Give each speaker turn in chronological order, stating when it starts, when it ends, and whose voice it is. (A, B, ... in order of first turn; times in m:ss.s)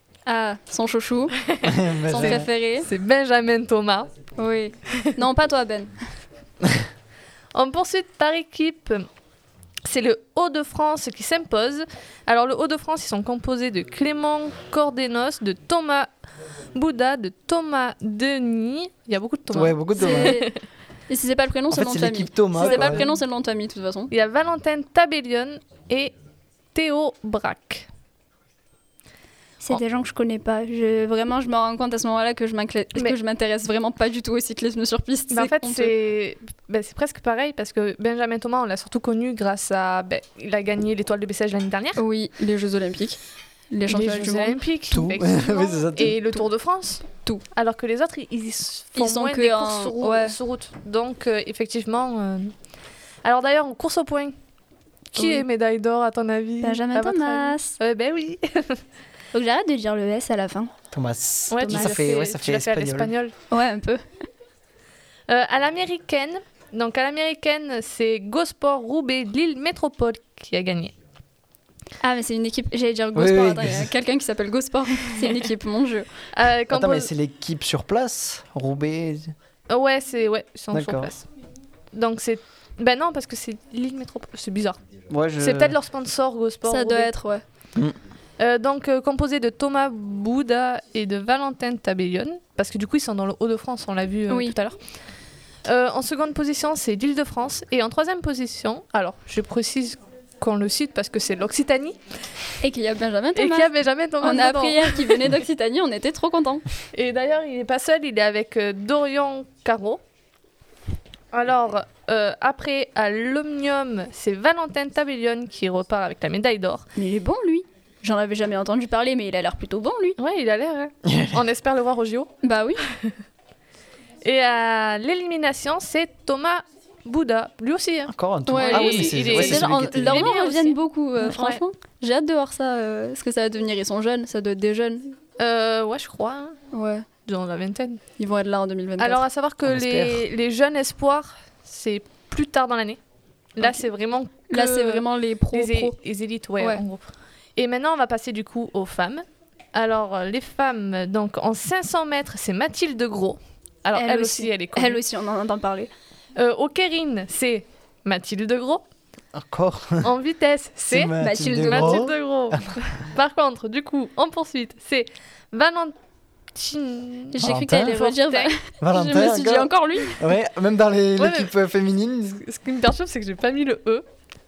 0:00.2-0:01.4 A
0:01.4-0:04.1 B
0:01.6-0:02.4 C
0:02.0-0:02.9 A
0:04.4-0:05.9 A
0:07.5-0:09.1 B
0:09.8-0:16.1 B
0:16.7-0:20.6 B
0:19.5-0:20.4 C
0:20.0-0:20.5 A
0:21.1-0:24.1 A
0:21.7-0:23.0 C
0:22.6-0:23.1 B
0:24.1-0:26.1 B
0:26.7-0:27.9 B
0:29.6-0:35.9 A
0:35.3-0:42.0 B
0:42.0-0:43.2 A
0:43.7-0:44.6 A
0:43.9-0:52.5 B
0:44.9-0:46.2 C
0:49.0-0:50.4 A
0:53.2-0:54.3 B
0:55.2-0:55.4 A
0:55.2-0:58.8 B
0:56.6-0:57.8 A
0:59.3-1:00.7 A
1:00.9-1:03.1 C
1:01.5-1:03.3 B
1:01.6-1:02.1 A
1:03.5-1:04.0 A
1:05.3-1:10.9 B
1:12.0-1:16.1 A
1:13.1-1:13.9 C
1:16.3-1:17.1 B
1:16.7-1:19.3 C
1:19.7-1:21.2 B
1:20.7-1:21.1 C
1:21.9-1:24.8 B
1:25.1-1:25.8 C
1:25.4-1:27.1 B
1:26.7-1:27.4 A
1:28.4-1:34.8 B
1:34.3-1:34.5 A
1:35.6-1:42.0 B
1:42.6-1:43.7 A
1:43.3-1:45.3 B
1:44.2-1:46.6 A
1:46.9-1:50.0 B
1:51.3-1:56.9 B
1:57.0-2:00.2 A
2:00.2-2:03.1 B
2:01.0-2:01.4 C
2:02.4-2:02.8 A
2:04.2-2:11.6 B
2:08.1-2:10.2 C
2:08.5-2:15.2 A
2:15.4-2:16.6 B
2:16.7-2:17.0 A
2:17.2-2:18.0 B
2:18.2-2:19.2 A
2:19.0-2:23.0 B
2:19.6-2:20.2 C
2:23.6-2:27.0 B
2:24.5-2:26.0 A
2:27.6-2:35.0 B
2:34.0-2:35.9 A
2:36.4-2:38.8 B
2:39.3-2:40.1 C
2:40.0-2:45.9 B
2:40.9-2:42.6 C
2:41.2-2:42.1 A
2:46.5-2:48.5 B
2:47.3-2:50.2 A
2:47.4-2:48.0 C
2:48.8-2:52.4 C
2:51.2-2:51.5 B
2:52.3-2:54.0 B